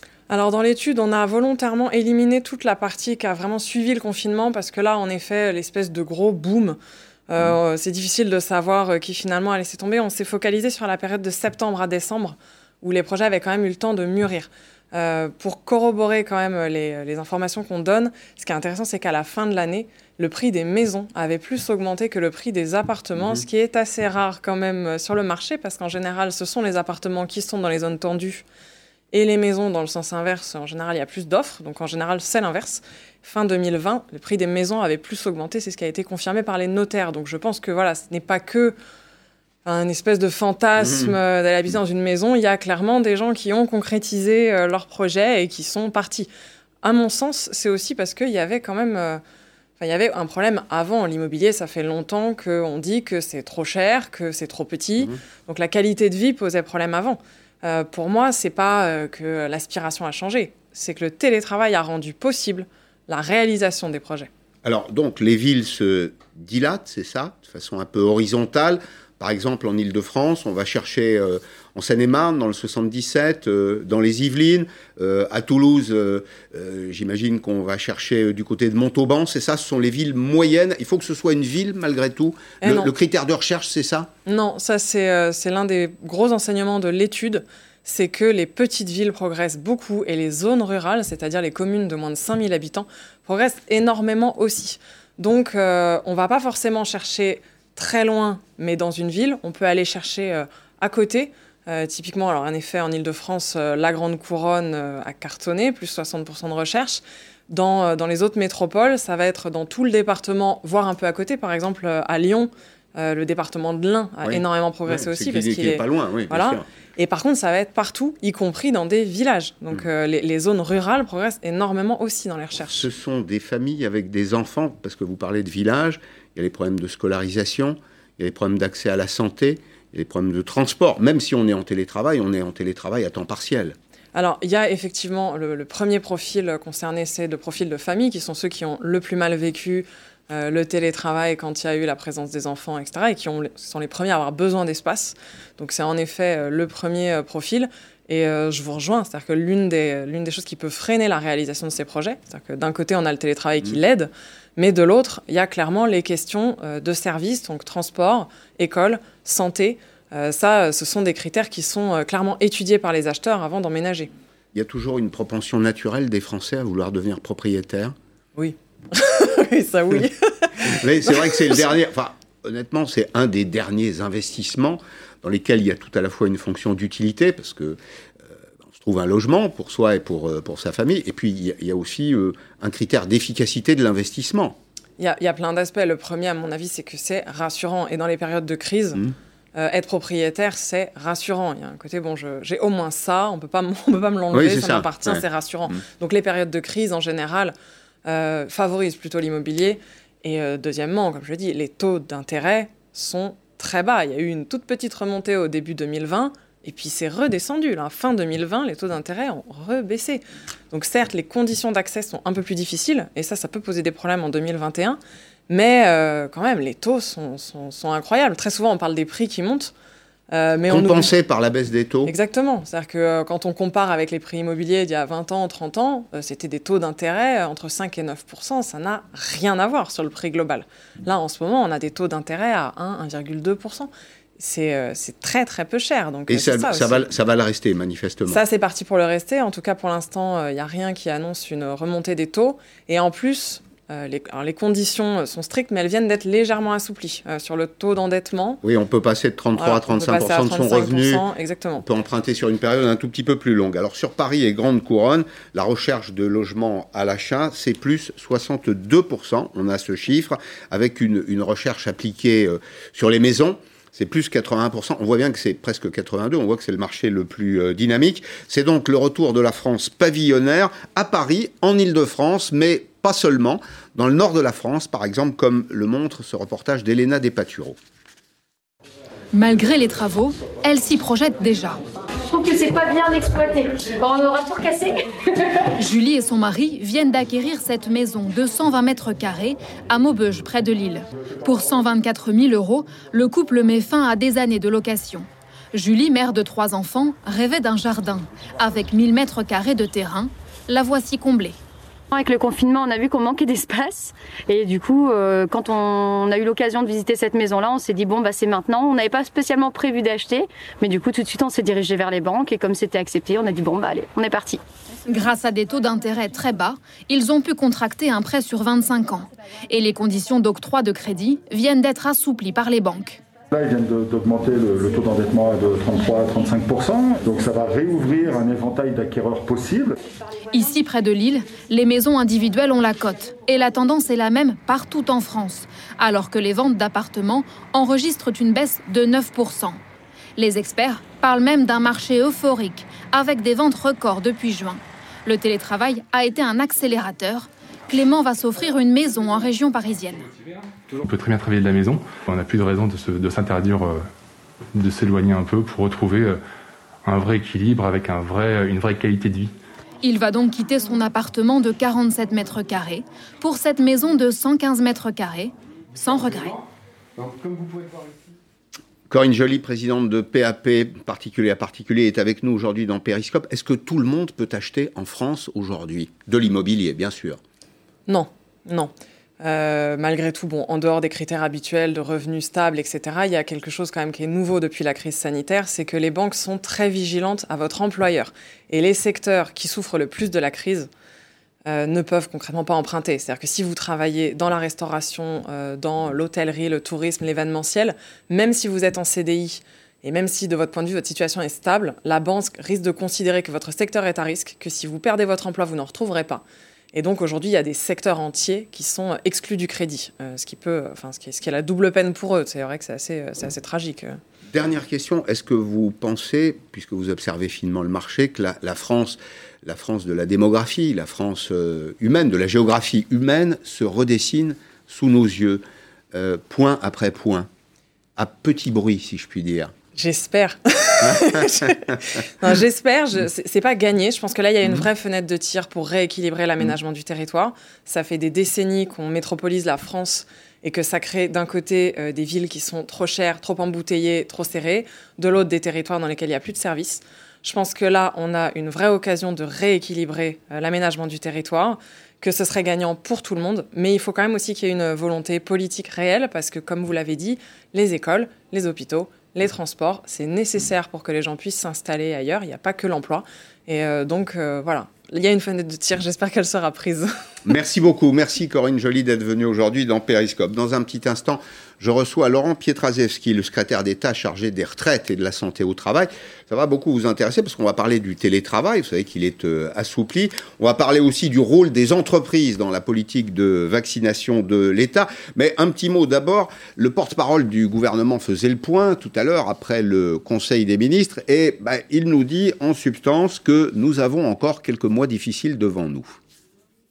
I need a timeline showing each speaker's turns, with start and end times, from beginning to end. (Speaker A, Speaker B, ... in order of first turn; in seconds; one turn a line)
Speaker A: 0.3-6.8
Speaker A: 7.3-28.4
Speaker B: 23.2-23.4
Speaker A: 29.1-38.8
Speaker A: 39.6-46.3
Speaker B: 40.8-41.1
Speaker A: 46.8-49.2
Speaker A: 49.8-64.3
Speaker B: 64.6-84.1
Speaker A: 82.6-82.9
Speaker A: 84.3-122.9
Speaker B: 114.2-116.7
Speaker B: 122.7-133.8
Speaker A: 134.1-164.1
Speaker B: 164.5-167.9
Speaker A: 168.4-171.6
Speaker B: 170.6-177.8
Speaker B: 178.7-184.6
Speaker A: 185.0-189.0
Speaker A: 189.6-197.5
Speaker B: 194.3-195.8
Speaker A: 198.1-219.7
Speaker A: 220.3-221.1
Speaker B: 220.7-222.1
Speaker A: 222.1-237.1
Speaker B: 236.3-238.4
Speaker A: 238.3-248.6
Speaker B: 248.6-251.2
Speaker A: 249.6-251.8
Speaker B: 251.8-277.8
Speaker C: 279.3-281.8
Speaker D: 282.2-285.1
Speaker C: 285.8-301.6
Speaker D: 302.1-314.6
Speaker C: 315.1-323.2
Speaker E: 323.5-330.0
Speaker C: 330.5-339.8
Speaker C: 340.4-350.2
Speaker F: 350.9-354.0
Speaker F: 354.8-356.4
Speaker F: 357.1-359.5
Speaker C: 360.0-366.6
Speaker E: 367.2-367.8
Speaker B: 369.1-377.4
Speaker A: 378.1-390.9
Speaker A: 391.7-414.2
Speaker B: 414.5-425.6
Speaker B: 426.1-427.5
Speaker B: 428.2-429.7
Speaker A: 430.0-467.1
Speaker B: 467.5-496.2